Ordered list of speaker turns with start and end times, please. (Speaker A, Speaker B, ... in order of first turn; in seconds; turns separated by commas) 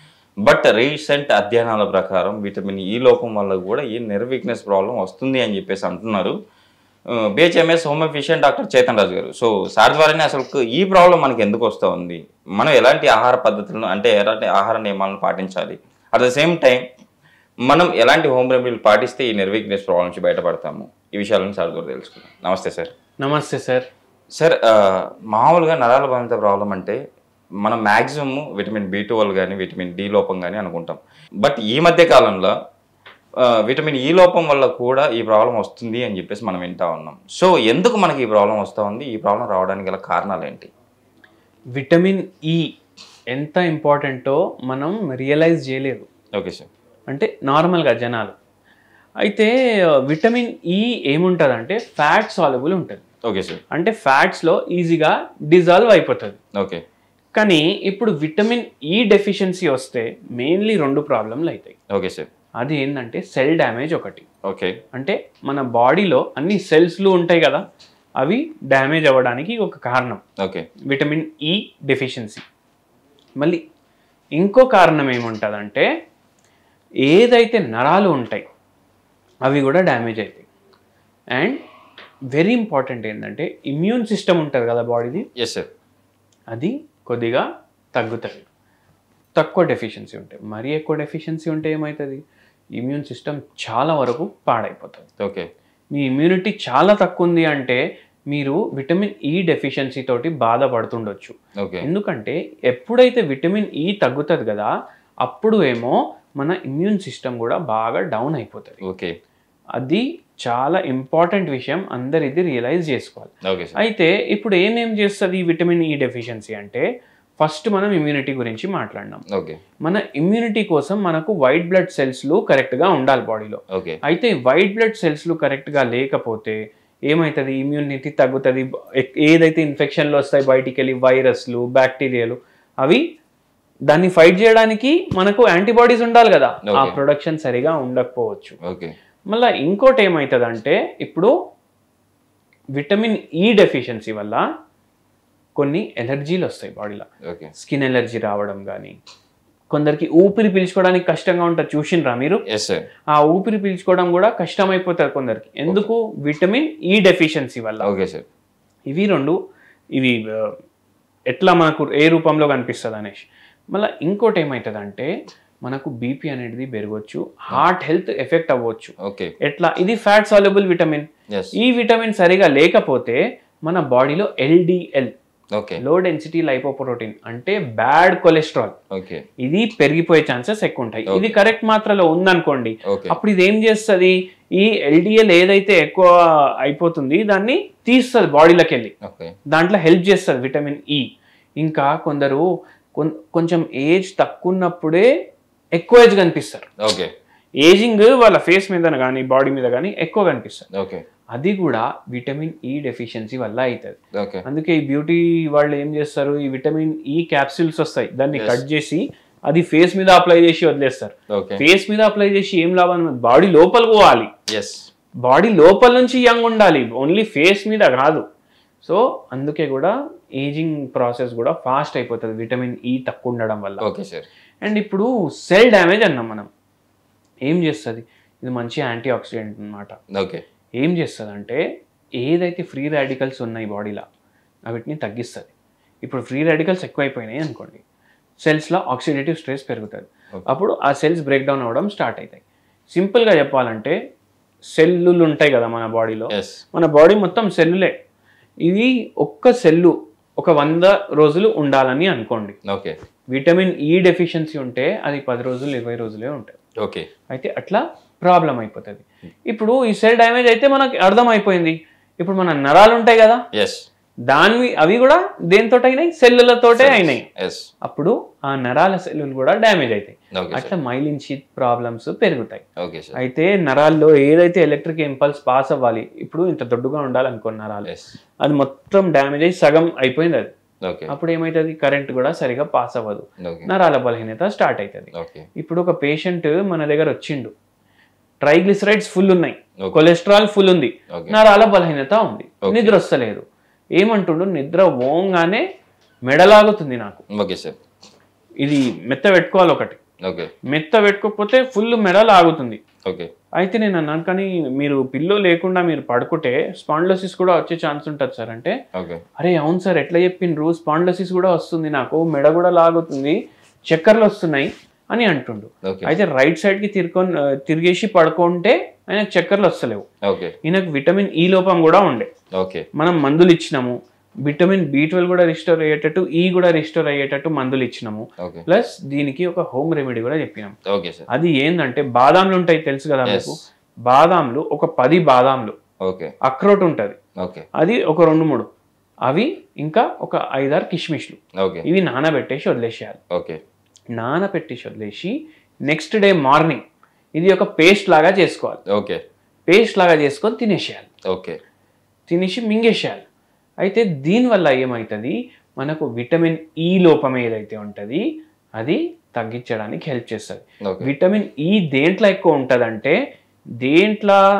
Speaker A: 0.4-6.3, Speaker A: 7.3-16.8, Speaker A: 17.7-22.9, Speaker B: 23.2-23.9, Speaker A: 24.4-27.0, Speaker A: 27.6-32.5, Speaker A: 33.4-40.7, Speaker B: 41.7-42.7, Speaker B: 43.3-46.1, Speaker A: 46.4-46.7, Speaker B: 47.1-48.4, Speaker B: 49.2-49.5, Speaker B: 50.1-53.0, Speaker A: 53.3-53.6, Speaker B: 53.7-56.4, Speaker B: 57.4-61.7, Speaker A: 61.9-62.3, Speaker B: 62.6-64.2, Speaker A: 64.5-64.7, Speaker B: 64.9-67.6, Speaker B: 68.2-70.2, Speaker A: 70.4-70.7, Speaker B: 70.9-72.4, Speaker B: 74.4-75.8, Speaker B: 77.0-78.4, Speaker B: 79.5-80.5, Speaker B: 82.3-85.2, Speaker A: 85.4-85.7, Speaker B: 86.5-88.5, Speaker B: 89.3-92.2, Speaker B: 92.8-95.1, Speaker A: 95.2-95.5, Speaker B: 95.9-104.7, Speaker A: 101.6-101.9, Speaker B: 105.2-108.8, Speaker A: 108.8-109.1, Speaker B: 109.8-116.8, Speaker A: 113.5-113.8, Speaker B: 117.4-119.2, Speaker A: 119.3-119.6, Speaker B: 119.8-126.6, Speaker A: 123.7-124.0, Speaker B: 127.1-133.0, Speaker B: 133.9-138.6, Speaker A: 136.7-137.0, Speaker A: 138.7-138.9, Speaker B: 139.3-141.3, Speaker B: 142.8-144.4, Speaker B: 145.6-148.9, Speaker B: 149.7-152.4, Speaker A: 152.5-152.8, Speaker B: 153.1-157.9, Speaker A: 157.8-158.2, Speaker B: 158.9-159.3, Speaker B: 160.0-160.5, Speaker B: 161.3-165.1, Speaker B: 165.6-168.9, Speaker A: 169.0-169.3, Speaker B: 169.4-175.1, Speaker A: 175.5-175.8, Speaker B: 175.8-178.8, Speaker A: 178.9-179.2, Speaker B: 179.4-186.1, Speaker A: 181.1-181.4, Speaker A: 182.9-183.2, Speaker B: 186.6-188.9, Speaker A: 189.0-189.3, Speaker B: 189.5-191.1, Speaker B: 191.6-195.1, Speaker B: 195.8-196.7, Speaker A: 196.8-197.1, Speaker B: 197.6-200.7, Speaker A: 200.7-201.0, Speaker B: 201.3-214.3, Speaker A: 204.2-204.4, Speaker A: 208.3-208.6, Speaker A: 211.3-211.6, Speaker A: 214.5-214.8, Speaker B: 215.2-218.2, Speaker B: 218.8-223.8, Speaker A: 223.8-224.2, Speaker B: 224.6-226.5, Speaker B: 227.5-229.9, Speaker A: 230.2-230.4, Speaker B: 230.8-231.6, Speaker B: 232.2-234.0, Speaker B: 234.7-235.5, Speaker B: 236.0-237.8, Speaker B: 238.4-242.4, Speaker B: 242.9-243.9, Speaker B: 244.8-247.9, Speaker A: 246.3-246.6, Speaker B: 248.6-252.6, Speaker A: 252.7-252.9, Speaker B: 253.3-256.6, Speaker A: 256.8-257.1, Speaker B: 257.3-263.4, Speaker A: 263.5-263.8, Speaker B: 264.3-267.2, Speaker A: 266.8-267.6, Speaker B: 267.8-272.6, Speaker A: 270.3-270.7, Speaker A: 272.8-273.2, Speaker B: 273.1-277.9, Speaker A: 277.9-278.1, Speaker B: 278.4-280.5, Speaker A: 280.8-281.1, Speaker B: 281.1-287.5, Speaker A: 283.4-283.7, Speaker A: 285.1-285.5, Speaker B: 288.4-293.4, Speaker A: 292.7-293.0, Speaker B: 294.0-295.6, Speaker B: 296.3-297.2, Speaker A: 297.4-297.8, Speaker B: 298.6-300.0, Speaker A: 300.2-300.5, Speaker B: 300.7-302.8, Speaker B: 303.6-308.7, Speaker A: 308.9-309.2, Speaker B: 309.4-313.4, Speaker B: 313.9-320.1, Speaker A: 315.8-316.1, Speaker A: 320.2-320.5, Speaker B: 320.6-322.3, Speaker A: 322.6-322.8, Speaker B: 322.9-330.7, Speaker A: 328.4-328.6, Speaker A: 330.9-331.3, Speaker B: 331.3-335.8, Speaker A: 333.2-333.6, Speaker A: 336.0-336.3, Speaker B: 336.4-337.2, Speaker A: 337.4-337.6, Speaker B: 337.8-338.7, Speaker B: 339.3-343.2, Speaker A: 341.6-341.8, Speaker A: 343.3-343.6, Speaker B: 344.1-345.3, Speaker B: 345.9-346.8, Speaker B: 347.4-348.8, Speaker A: 348.9-349.2, Speaker B: 349.7-351.1, Speaker A: 351.3-351.6, Speaker B: 352.3-353.2, Speaker B: 353.8-358.2, Speaker B: 358.8-363.1, Speaker A: 360.8-361.1, Speaker B: 363.8-364.4